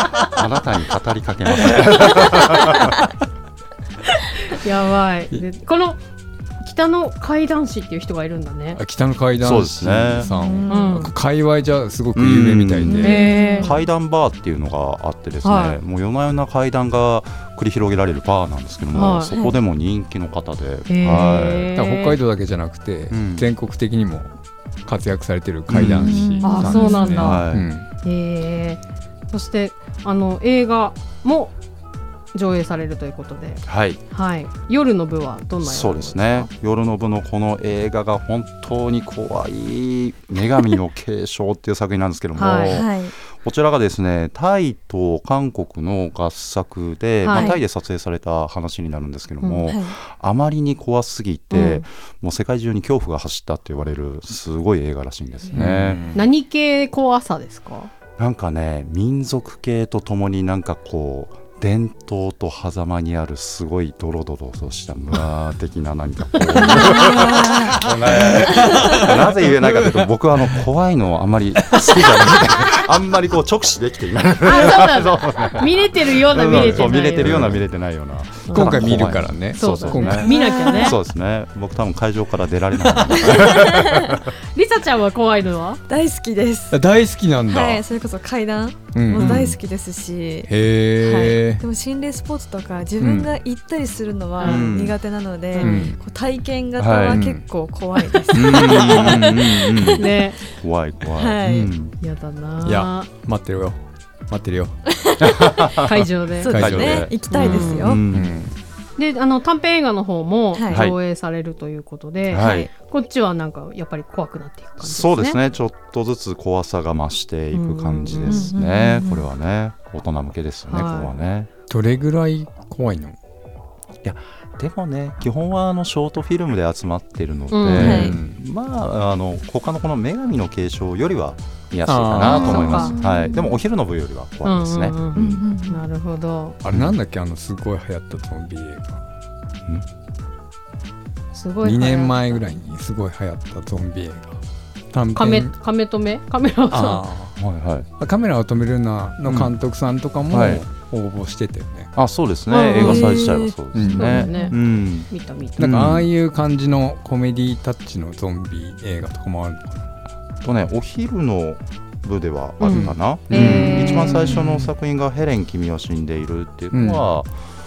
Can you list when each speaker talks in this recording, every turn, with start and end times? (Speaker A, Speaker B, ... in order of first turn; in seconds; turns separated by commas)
Speaker A: 0.2-3.0, Speaker B: 4.4-6.0, Speaker B: 6.6-8.8, Speaker C: 8.8-13.2, Speaker A: 9.4-10.3, Speaker D: 10.2-11.0, Speaker B: 10.7-11.1, Speaker A: 12.1-21.7, Speaker D: 12.8-13.9, Speaker B: 13.0-13.8, Speaker B: 15.4-15.8, Speaker B: 18.9-19.3, Speaker D: 19.3-19.6, Speaker B: 20.9-22.2, Speaker C: 21.7-24.3, Speaker A: 23.1-23.5, Speaker C: 24.8-27.9, Speaker A: 25.7-26.3, Speaker D: 25.9-27.4, Speaker B: 26.4-27.5, Speaker A: 27.2-27.7, Speaker B: 28.0-31.5, Speaker B: 32.3-36.5, Speaker A: 33.6-34.0, Speaker A: 35.6-56.1, Speaker B: 42.4-42.8, Speaker D: 42.7-43.1, Speaker B: 47.2-47.6, Speaker D: 47.3-47.6, Speaker B: 49.4-49.7, Speaker D: 49.7-49.9, Speaker B: 51.5-51.8, Speaker C: 55.5-56.2, Speaker B: 56.1-57.9, Speaker A: 58.2-84.3, Speaker D: 66.6-67.5, Speaker C: 66.6-70.6, Speaker C: 71.7-72.6, Speaker B: 74.4-77.5, Speaker C: 76.4-77.6, Speaker B: 78.5-81.0, Speaker C: 78.5-80.3, Speaker D: 80.2-81.0, Speaker D: 83.2-84.1, Speaker B: 84.5-85.8, Speaker D: 85.9-86.8, Speaker C: 86.7-87.8, Speaker D: 87.5-100.0, Speaker C: 88.9-89.6, Speaker A: 89.2-89.5, Speaker C: 90.5-91.6, Speaker C: 93.0-93.3, Speaker B: 94.4-94.7, Speaker A: 94.4-95.0, Speaker B: 95.5-95.8, Speaker C: 95.6-96.0, Speaker A: 96.8-97.2, Speaker C: 97.1-97.5, Speaker A: 98.3-101.9, Speaker B: 100.0-100.4, Speaker D: 101.2-101.7, Speaker B: 102.0-103.1, Speaker C: 102.6-104.8, Speaker D: 104.9-105.5, Speaker A: 105.2-106.0, Speaker B: 105.8-106.6, Speaker D: 106.4-108.0, Speaker C: 106.5-107.2, Speaker A: 106.5-108.3, Speaker B: 107.3-108.0, Speaker C: 108.1-108.5, Speaker B: 109.0-115.3, Speaker D: 110.5-110.8, Speaker A: 110.7-111.0, Speaker A: 112.3-112.7, Speaker D: 112.3-112.7, Speaker A: 114.8-121.5, Speaker B: 117.5-118.5, Speaker D: 118.2-119.3, Speaker B: 120.7-121.1, Speaker C: 121.7-123.2, Speaker A: 124.0-135.4, Speaker B: 127.5-128.1, Speaker C: 127.7-128.4, Speaker D: 127.8-128.2, Speaker C: 131.8-133.0, Speaker D: 132.2-133.6, Speaker B: 132.2-132.9, Speaker B: 134.4-136.6, Speaker D: 135.2-135.8, Speaker C: 136.6-139.0, Speaker B: 141.3-142.5, Speaker C: 141.6-144.4, Speaker C: 144.9-145.5, Speaker B: 145.2-147.0, Speaker C: 146.7-147.4, Speaker A: 147.4-147.9, Speaker C: 148.0-151.9, Speaker A: 149.2-149.5, Speaker A: 150.3-150.6, Speaker A: 152.0-156.1, Speaker B: 152.5-155.6, Speaker D: 152.7-153.5, Speaker C: 153.7-154.3, Speaker D: 154.3-154.5, Speaker C: 155.6-159.9, Speaker A: 160.4-167.4, Speaker B: 162.6-164.4, Speaker C: 162.7-164.7, Speaker C: 166.7-167.1